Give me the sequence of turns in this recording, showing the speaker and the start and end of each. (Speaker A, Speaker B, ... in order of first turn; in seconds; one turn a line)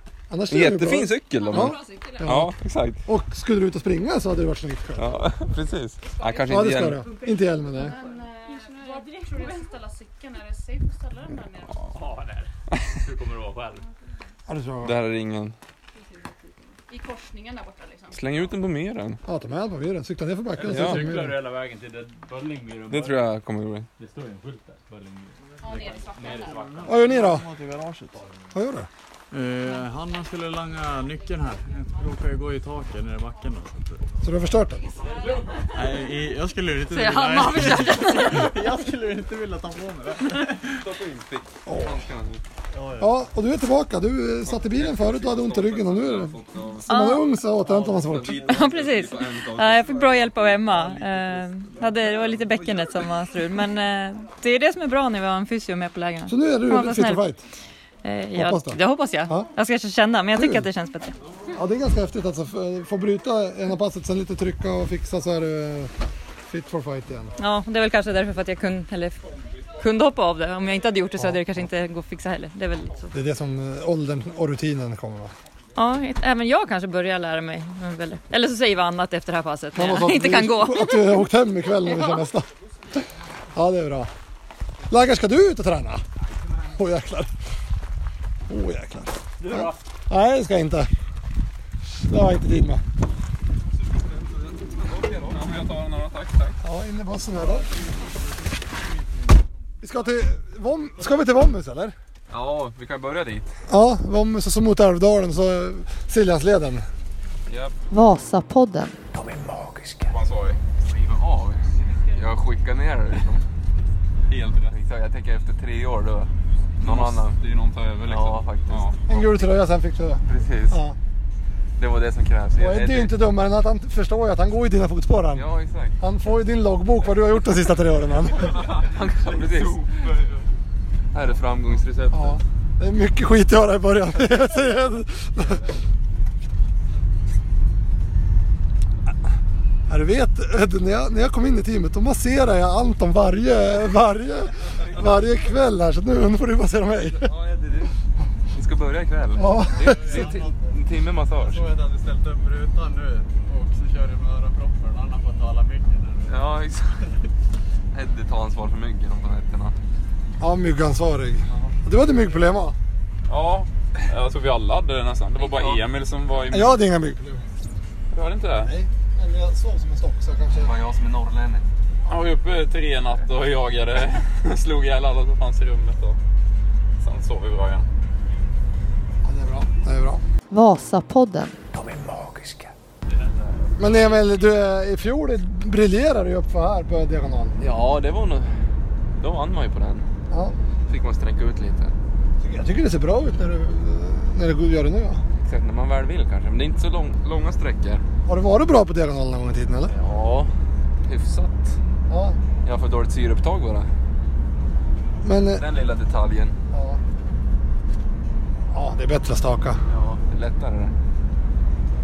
Speaker A: 0.3-2.5
Speaker B: 0.5-3.0
Speaker C: 1.6-2.2
Speaker A: 3.0-5.2
Speaker B: 5.0-7.0
Speaker A: 6.5-8.0
Speaker C: 7.1-11.6
Speaker D: 11.7-13.9
Speaker A: 14.5-14.9
Speaker B: 14.8-15.5
Speaker C: 16.9-18.2
Speaker B: 18.1-19.2
Speaker A: 19.2-21.4
Speaker D: 20.5-23.3
Speaker B: 20.6-21.1
Speaker B: 22.9-23.9
Speaker D: 24.0-27.3
Speaker E: 26.8-28.2
Speaker A: 26.9-27.5
Speaker D: 28.1-28.5
Speaker A: 28.5-28.9
Speaker E: 29.3-34.1
Speaker A: 34.2-34.9
Speaker D: 35.0-35.6
Speaker E: 35.7-40.8
Speaker F: 36.9-38.5
Speaker B: 40.8-42.4
Speaker A: 41.6-42.1
Speaker D: 42.7-43.1
Speaker A: 43.0-48.5
Speaker B: 44.5-46.9
Speaker F: 46.9-47.2
Speaker B: 47.6-51.0
Speaker F: 48.3-57.2
Speaker A: 56.3-57.4
Speaker F: 58.0-61.1
Speaker A: 58.3-59.5
Speaker A: 60.3-60.6
Speaker A: 61.5-65.9
Speaker A: 66.4-67.3
Speaker F: 67.4-69.2
Speaker F: 69.8-73.1
Speaker A: 73.1-75.3
Speaker F: 75.8-81.2
Speaker A: 79.8-83.0
Speaker F: 81.9-82.1
Speaker A: 83.5-84.1
Speaker A: 84.9-86.0
Speaker A: 86.6-87.3
Speaker A: 88.5-90.9
Speaker D: 89.4-89.8
Speaker A: 92.0-92.8
Speaker B: 93.8-95.4
Speaker G: 95.3-96.6
Speaker A: 96.6-97.7
Speaker E: 97.4-99.4
Speaker A: 99.8-101.9
Speaker B: 102.3-103.6
Speaker A: 103.7-106.8
Speaker B: 107.5-107.7
Speaker H: 107.9-108.9
Speaker I: 109.1-110.2
Speaker G: 110.1-110.6
Speaker B: 110.8-113.4
Speaker G: 114.3-114.7
Speaker B: 114.7-117.4
Speaker G: 116.8-119.0
Speaker B: 118.0-118.9
Speaker A: 119.1-121.0
Speaker B: 120.3-120.8
Speaker B: 121.8-123.2
Speaker A: 122.5-125.5
Speaker B: 125.3-126.0
Speaker A: 126.0-128.6
Speaker G: 128.4-130.4
Speaker B: 128.5-129.9
Speaker B: 131.1-132.4
Speaker A: 132.1-135.6
Speaker A: 139.9-147.3
Speaker B: 147.1-147.9
Speaker B: 148.5-151.7
Speaker A: 149.3-150.3
Speaker E: 149.6-150.8
Speaker E: 151.4-156.4
Speaker B: 156.3-157.0
Speaker B: 157.9-159.8
Speaker A: 160.4-162.7
Speaker G: 163.3-166.8
Speaker B: 165.4-165.8
Speaker A: 166.5-167.4
Speaker G: 168.1-168.7
Speaker A: 168.6-170.7
Speaker B: 170.5-171.7
Speaker G: 172.1-176.2
Speaker G: 177.0-177.8
Speaker A: 179.2-180.2
Speaker H: 180.5-181.5
Speaker I: 181.7-182.7
Speaker D: 183.1-183.6
Speaker A: 183.8-187.6
Speaker B: 187.6-188.5
Speaker B: 189.2-190.1
Speaker A: 190.3-190.6
Speaker B: 190.9-191.9
Speaker A: 192.4-195.2
Speaker B: 195.3-198.0
Speaker A: 198.2-199.9
Speaker B: 199.9-200.5
Speaker B: 201.0-201.8
Speaker A: 202.1-202.4
Speaker B: 202.6-203.9
Speaker A: 205.2-205.6
Speaker B: 205.5-206.6
Speaker A: 206.7-207.0
Speaker A: 208.7-209.8
Speaker B: 209.9-210.9